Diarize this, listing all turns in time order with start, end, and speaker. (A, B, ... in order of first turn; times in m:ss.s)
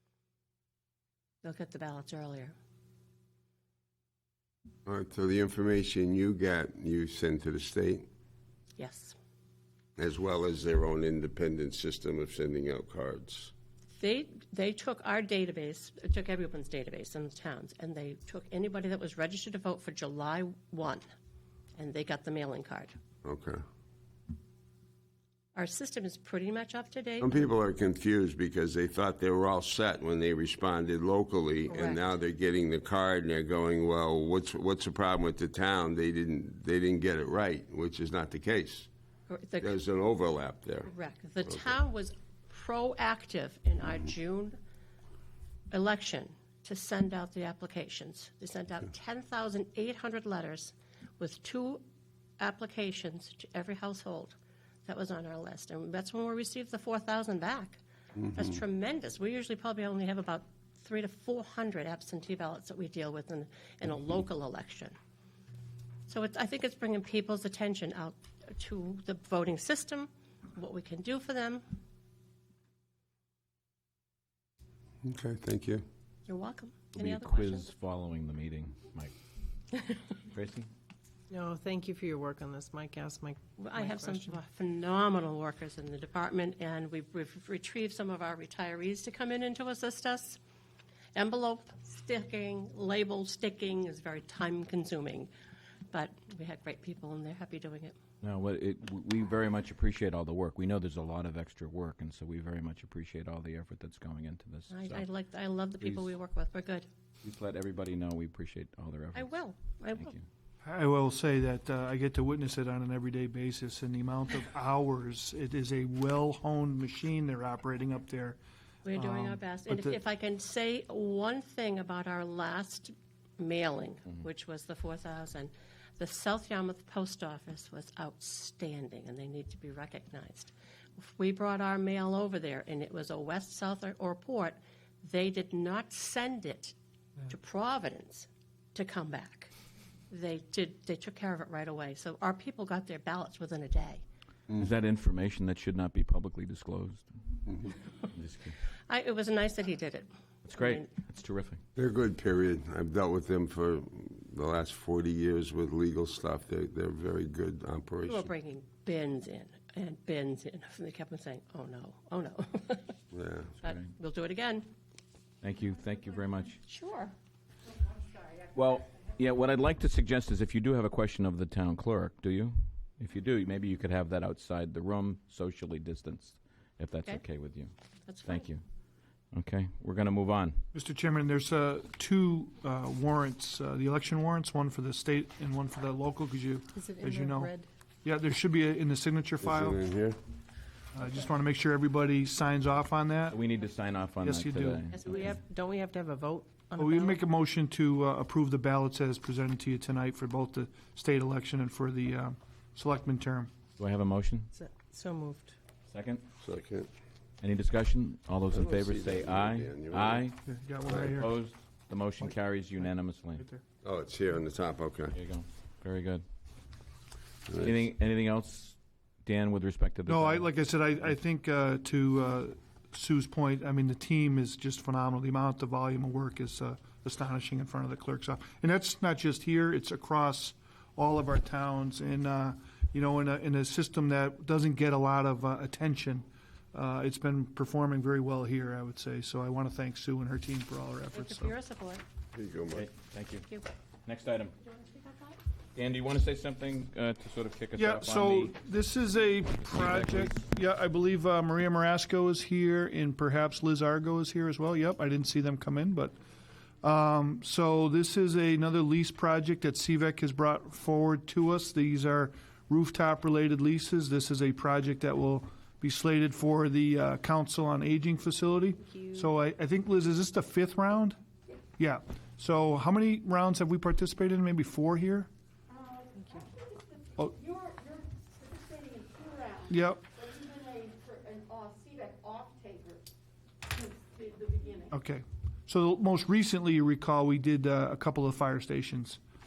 0:01.4-0:02.5 A
0:04.8-0:08.0 B
0:08.8-0:09.2 A
0:10.0-0:13.5 B
0:13.9-0:21.0 A
0:21.8-0:23.0 A
0:23.2-0:23.6 B
0:25.5-0:27.5 A
0:27.2-0:38.9 B
0:31.7-0:32.0 A
0:39.3-0:39.8 A
0:39.6-0:40.9 B
0:40.8-0:44.6 A
0:41.4-0:41.7 B
0:45.7-0:51.8 A
0:52.4-1:04.9 A
1:06.1-1:11.6 A
1:15.0-1:15.8 B
1:16.3-1:17.7 A
1:16.9-1:19.1 C
1:20.1-1:20.7 C
1:21.3-1:24.4 D
1:23.6-1:30.4 A
1:31.1-1:35.3 A
1:35.9-1:38.0 A
1:38.2-1:45.0 C
1:44.7-1:46.9 A
1:47.2-1:49.3 C
1:49.1-1:50.2 A
1:50.0-1:50.2 C
1:50.6-1:58.4 E
1:58.8-2:16.8 A
1:58.9-2:00.0 E
2:17.3-2:19.5 A
2:20.1-2:24.0 A
2:24.6-2:27.5 C
2:28.0-2:28.6 C
2:28.9-2:30.9 A
2:30.4-2:31.6 C
2:31.8-2:38.3 B
2:38.0-2:43.0 A
2:43.1-2:43.5 B
2:43.6-2:43.9 C
2:43.6-2:44.7 A
2:45.4-2:46.6 C
2:46.6-2:47.1 A
2:48.5-2:57.7 C
2:58.0-2:58.5 A
2:58.2-2:58.6 C
2:59.3-3:00.6 C
3:00.7-3:07.5 E
3:06.7-3:07.7 D
3:08.0-3:09.8 E
3:09.4-3:10.2 B
3:10.9-3:13.4 E
3:13.3-3:15.3 C
3:14.2-3:14.9 E
3:14.9-3:17.2 D
3:16.8-3:23.5 E
3:23.8-3:24.5 C
3:24.5-3:25.6 D
3:25.9-3:26.2 C
3:26.4-3:26.9 B
3:27.4-3:30.4 C
3:28.5-3:30.2 B
3:30.4-3:31.3 E
3:31.0-3:33.4 C
3:33.8-3:35.1 B
3:35.1-3:36.2 C
3:37.5-3:37.8 B
3:37.6-3:40.5 C
3:40.0-4:01.5 E
4:01.1-4:02.0 A
4:02.3-4:02.9 B
4:02.7-4:03.5 C
4:04.0-4:04.5 C
4:04.7-4:05.3 A
4:05.7-4:08.6 C
4:07.8-4:16.1 E
4:09.6-4:10.4 C
4:16.8-4:31.2 E
4:31.8-4:35.3 E
4:36.1-4:36.5 D
4:37.4-4:43.0 F
4:39.7-4:40.0 E
4:43.8-4:44.9 F
4:44.9-4:49.2 E